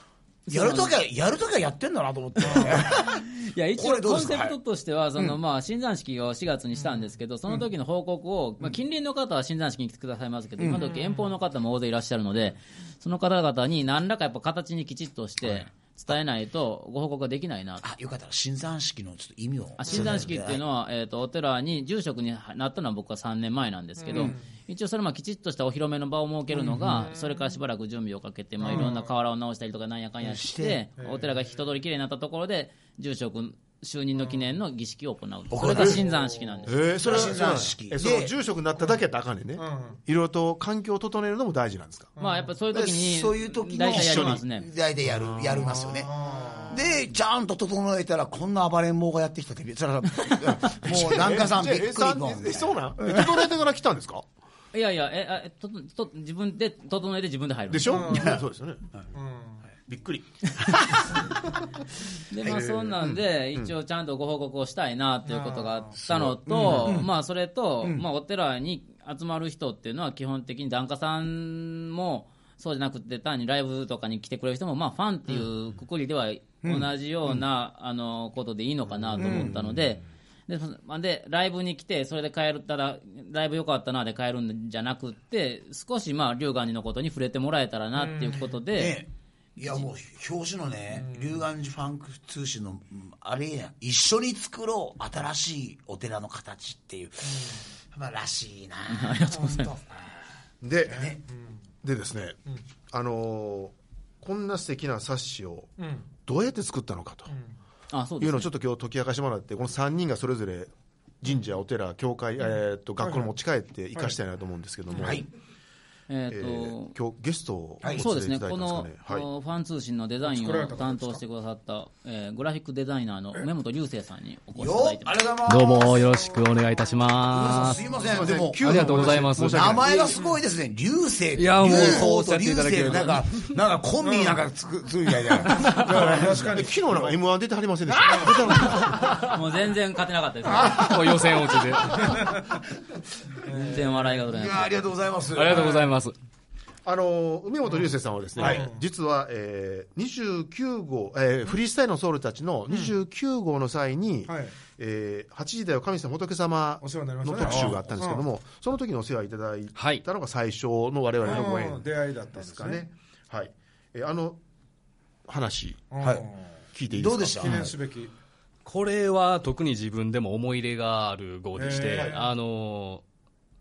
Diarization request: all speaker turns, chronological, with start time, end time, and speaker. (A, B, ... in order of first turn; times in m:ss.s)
0:00.5-0:00.9 A
0:00.5-0:04.6 B
0:02.5-0:17.8 A
0:02.6-0:02.8 C
0:10.6-0:10.9 B
0:10.9-0:11.3 C
0:15.4-0:15.7 B
0:17.8-0:20.6 B
0:19.8-0:36.9 A
0:24.0-0:24.5 C
0:26.7-0:27.1 B
0:28.6-0:29.1 C
0:30.2-0:30.8 B
0:31.0-0:31.4 C
0:35.5-0:36.0 B
0:35.7-0:36.0 D
0:35.9-0:37.6 C
0:36.7-0:42.1 D
0:37.0-0:38.3 B
0:39.6-0:40.0 C
0:42.2-0:42.5 C
0:42.2-0:44.7 A
0:42.7-0:46.1 B
0:43.9-0:44.4 D
0:45.0-0:46.1 D
0:45.8-0:46.8 C
0:46.7-0:53.5 B
0:50.9-0:54.3 D
0:54.7-0:58.4 A
0:57.7-0:58.9 D
0:57.9-0:58.3 C
0:59.1-0:59.6 C
0:59.9-1:01.4 D
1:02.3-1:29.0 A
1:02.4-1:03.7 D
1:05.3-1:05.9 C
1:05.9-1:07.1 B
1:19.2-1:19.5 C
1:19.2-1:19.8 B
1:28.0-1:28.4 C
1:28.7-1:40.2 B
1:31.0-1:31.4 C
1:37.3-1:37.5 C
1:38.9-1:39.8 A
1:40.6-1:41.1 D
1:40.9-1:41.2 B
1:41.1-1:41.6 C
1:41.8-1:42.4 D
1:42.9-1:45.7 D
1:45.8-1:46.1 C
1:46.2-1:47.3 D
1:47.9-1:48.5 A
1:48.2-1:55.2 D
1:53.0-1:53.3 C
1:55.0-1:55.3 B
1:56.1-1:56.9 A
1:56.3-1:59.3 D
1:57.8-1:58.1 B
1:57.9-2:05.3 A
2:00.2-2:01.2 C
2:04.6-2:06.0 B
2:05.5-2:07.8 E
2:07.3-2:16.6 B
2:08.0-2:09.9 D
2:08.6-2:09.8 E
2:11.4-2:13.2 E
2:14.0-2:14.4 C
2:15.5-2:17.2 C
2:16.2-2:19.2 D
2:18.0-2:18.4 C
2:18.7-2:19.3 E
2:19.1-2:21.0 A
2:20.6-2:20.9 B
2:20.6-2:22.4 E
2:22.0-2:22.5 C
2:23.5-2:24.2 C
2:23.5-2:24.7 A
2:24.3-2:25.8 B
2:25.3-2:26.2 E
2:25.5-2:25.9 C
2:26.8-2:44.4 D
2:28.4-2:28.8 C
2:28.4-2:28.7 B
2:34.3-2:34.6 C
2:36.8-2:38.2 C
2:37.4-2:37.9 B
2:39.8-2:40.0 E
2:41.2-2:42.8 C
2:45.3-2:45.9 D
2:45.9-2:46.5 C
2:46.0-2:46.3 B
2:46.7-2:47.7 D
2:46.9-2:47.7 B
2:47.4-2:48.1 C
2:48.6-2:53.0 E
2:51.6-2:52.3 C